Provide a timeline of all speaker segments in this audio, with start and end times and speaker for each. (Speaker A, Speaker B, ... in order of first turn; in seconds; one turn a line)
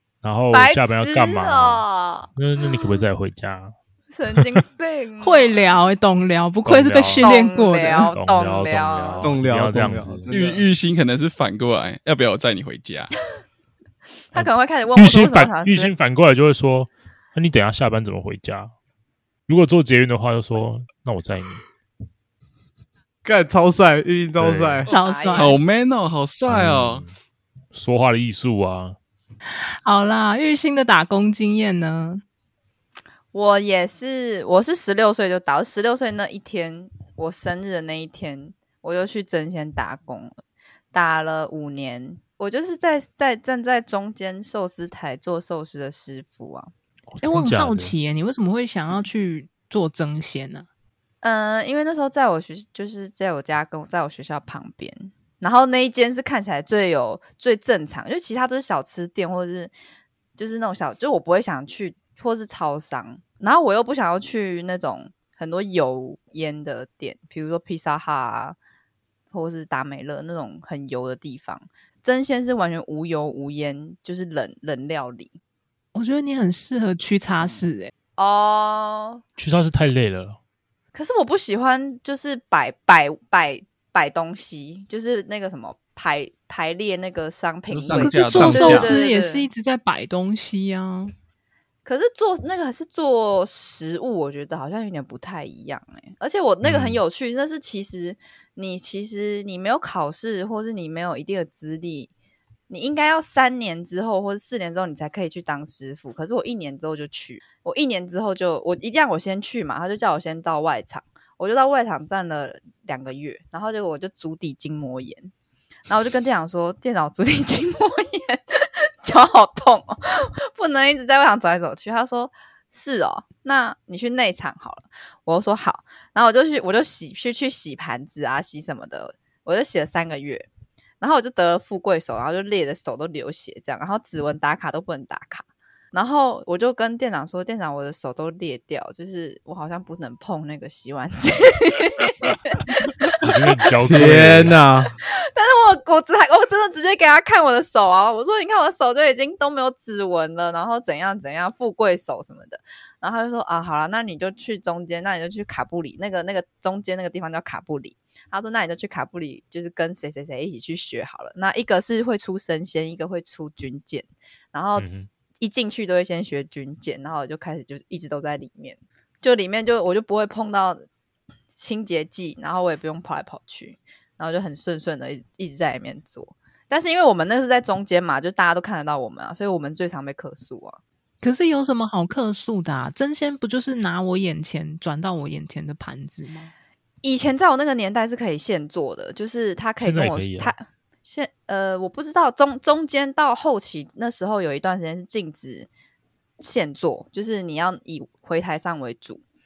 Speaker A: 0.2-1.8
Speaker B: 0.5-3.0
Speaker A: 2.4-3.7
Speaker B: 4.1-5.6
Speaker A: 4.3-4.6
Speaker C: 5.2-8.1
Speaker A: 6.6-7.3
Speaker B: 7.2-9.3
Speaker A: 8.1-10.3
Speaker D: 9.2-10.6
Speaker E: 10.3-13.1
Speaker B: 14.3-15.9
Speaker A: 14.3-18.7
Speaker A: 19.5-21.6
Speaker D: 23.2-24.9
Speaker A: 24.4-24.9
Speaker B: 24.9-25.6
Speaker C: 24.9-25.5
Speaker E: 25.3-27.0
Speaker A: 26.5-27.1
Speaker A: 27.7-28.9
Speaker C: 29.5-32.2
Speaker B: 33.3-40.4
Speaker B: 40.9-46.7
Speaker A: 47.1-47.9
Speaker C: 47.2-50.7
Speaker B: 51.2-59.7
Speaker B: 60.4-68.6
Speaker B: 69.3-75.3
Speaker C: 75.9-77.9
Speaker B: 78.2-79.2
Speaker A: 79.4-80.4
Speaker B: 80.9-89.5
Speaker E: 87.7-88.9
Speaker C: 88.0-91.1
Speaker B: 91.8-102.1
Speaker A: 96.6-97.0
Speaker B: 102.7-115.3
Speaker B: 115.9-130.5
Speaker B: 131.0-143.5
Speaker A: 143.2-144.6
Speaker D: 143.8-144.9
Speaker B: 145.2-164.8
Speaker A: 164.8-165.1
Speaker B: 165.4-170.8
Speaker B: 171.5-180.8
Speaker C: 181.2-186.5
Speaker B: 187.0-195.7
Speaker A: 189.8-190.5
Speaker B: 196.4-199.2